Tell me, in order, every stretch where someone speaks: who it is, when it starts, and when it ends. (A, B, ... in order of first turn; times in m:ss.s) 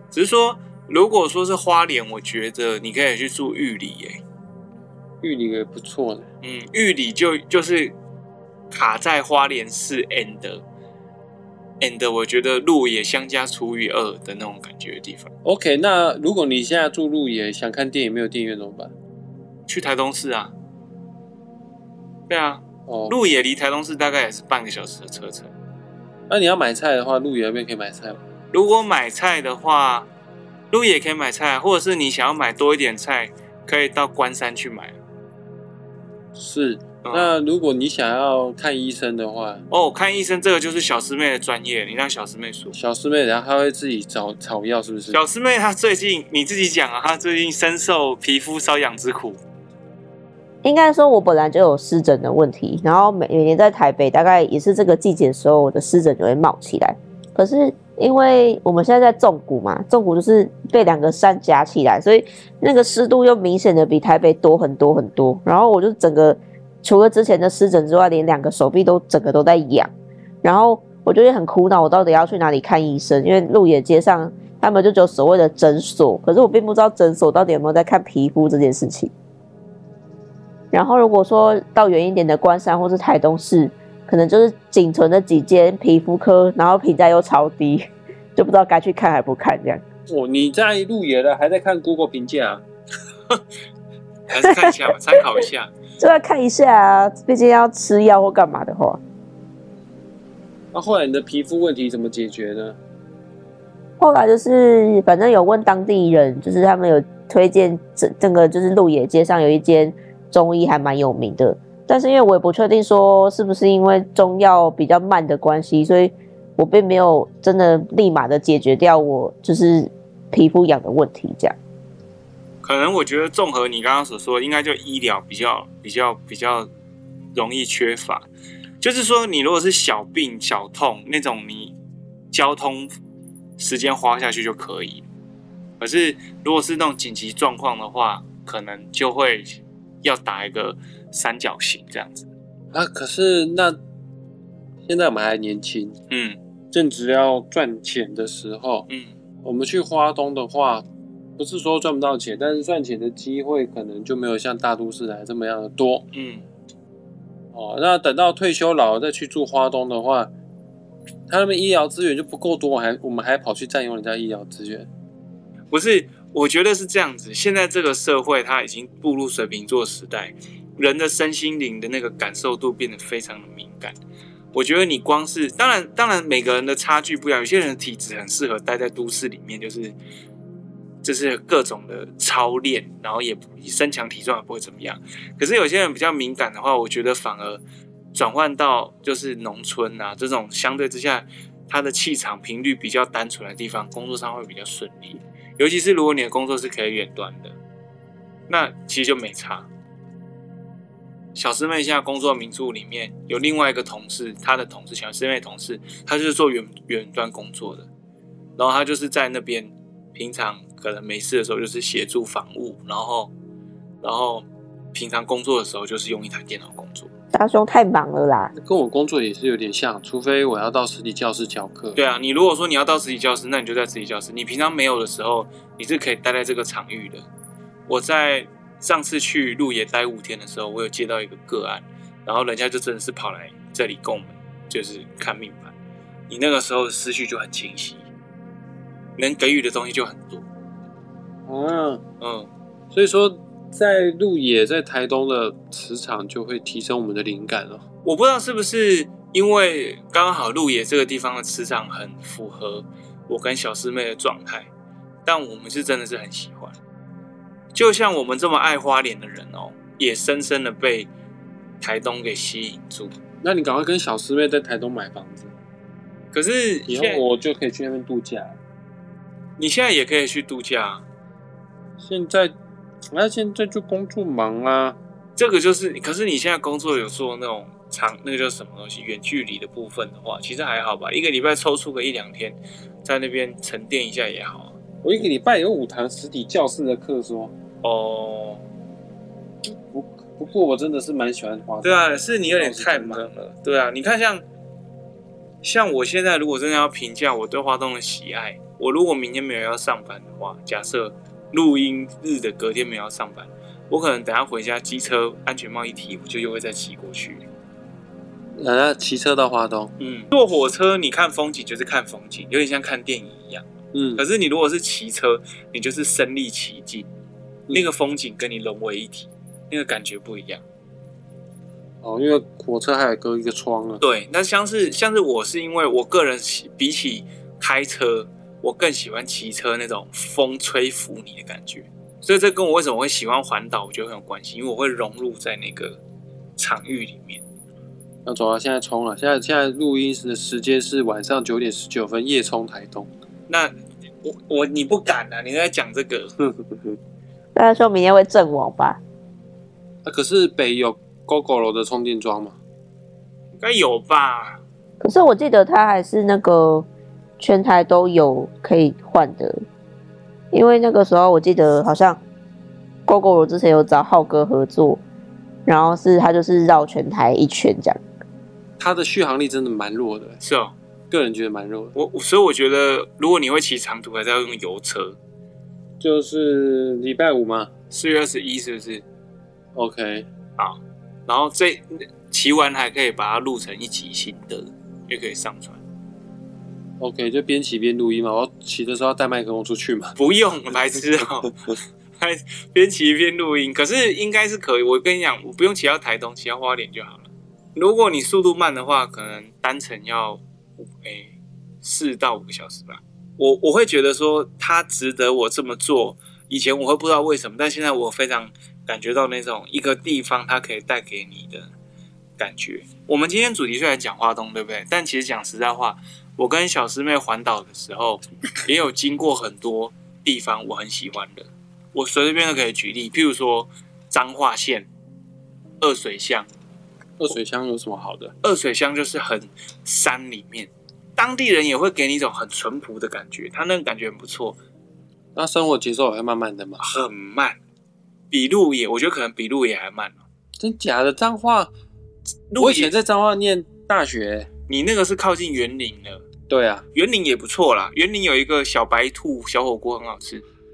0:00.1-0:04.2 A
0:05.2-0:06.3 B
0:06.4-0:08.0 A
0:08.7-0:10.6 A
0:11.8-0:15.3 A
0:15.4-0:18.9 B
0:19.7-0:20.5 A
0:22.3-0:25.5 A
0:22.9-0:23.2 B
0:26.3-0:28.2 B
0:28.5-0:30.1 A
0:30.7-0:35.0 A
0:36.4-0:39.6 B
0:37.0-0:37.3 A
0:39.7-0:42.8 A
0:42.8-0:45.2 B
0:45.1-0:49.4 A
0:50.6-1:09.9 C
1:10.4-1:19.1 C
1:20.7-1:29.8 C
1:30.1-1:32.6 B
1:34.3-1:35.7 A
1:34.4-1:34.7 C
1:36.0-1:39.0 C
1:40.7-1:42.8 B
1:44.0-2:01.6 C
2:02.6-2:06.7 A
2:07.3-2:08.3 A
2:08.8-2:11.8 A
2:12.3-2:12.9 A
2:13.6-2:15.0 A
2:15.8-2:22.3 A
2:22.7-2:23.8 B
2:24.9-2:26.0 B
2:26.1-2:26.4 A
2:26.7-2:28.9 B
2:29.4-2:30.9 B
2:31.4-2:36.1 B
2:36.1-2:36.4 A
2:37.5-2:40.3 B
2:41.3-2:44.9 B
2:45.7-2:54.0 A
2:54.5-3:00.0 A
3:01.0-3:07.6 A
3:08.1-3:17.6 A
3:18.5-3:19.7 A
3:21.4-3:27.9 A
3:28.6-3:33.3 A
3:34.0-3:37.1 A
3:37.3-3:38.5 C
3:38.5-3:42.0 B
3:42.0-3:47.2 A
3:47.9-3:55.7 A
3:56.3-3:58.0 A
3:59.2-4:00.4 A
4:01.5-4:02.0 B
4:02.2-4:02.5 A
4:02.9-4:07.8 B
4:08.0-4:14.7 A
4:15.2-4:16.8 A
4:17.7-4:21.1 A
4:21.8-4:23.1 A
4:23.4-4:25.5 B
4:26.3-4:27.2 A
4:26.9-4:28.6 B
4:29.6-4:31.0 A
4:32.0-4:32.6 B
4:33.1-4:35.0 B
4:35.4-4:44.8 A
4:45.0-4:47.5 B
4:47.8-4:48.6 A
4:49.6-4:53.3 B
4:51.8-4:54.4 A
4:55.6-5:07.5 A
5:08.6-5:09.9 B
5:10.0-5:13.6 A
5:13.9-5:14.2 B
5:14.2-5:17.1 A
5:17.7-5:20.6 A
5:22.0-5:24.0 B
5:24.0-5:36.0 A
5:36.6-5:37.4 A
5:38.2-5:43.1 B
5:43.5-5:46.3 A
5:46.4-5:47.0 B
5:47.6-5:49.0 C
5:50.0-5:52.6 B
5:53.6-5:54.6 A
5:55.0-5:56.9 C
5:57.4-5:59.6 C
6:00.5-6:02.2 C
6:03.1-6:05.0 C
6:05.7-6:08.0 C
6:08.8-6:10.4 B
6:10.4-6:10.7 A
6:11.1-6:12.0 B
6:12.0-6:15.2 A
6:16.0-6:17.7 B
6:17.9-6:19.0 A
6:19.8-6:20.3 B
6:20.6-6:25.8 A
6:27.0-6:30.2 B
6:30.2-6:51.7 A
6:52.4-7:04.9 A
7:05.8-7:06.5 A
7:07.2-7:08.3 B
7:08.4-7:14.6 A
7:15.4-7:16.8 B
7:16.8-7:17.6 A
7:18.3-7:20.2 A
7:20.6-7:21.7 B
7:22.5-7:22.9 A
7:22.6-7:24.5 B
7:24.7-7:26.2 A
7:26.5-7:26.9 B
7:27.0-7:30.4 A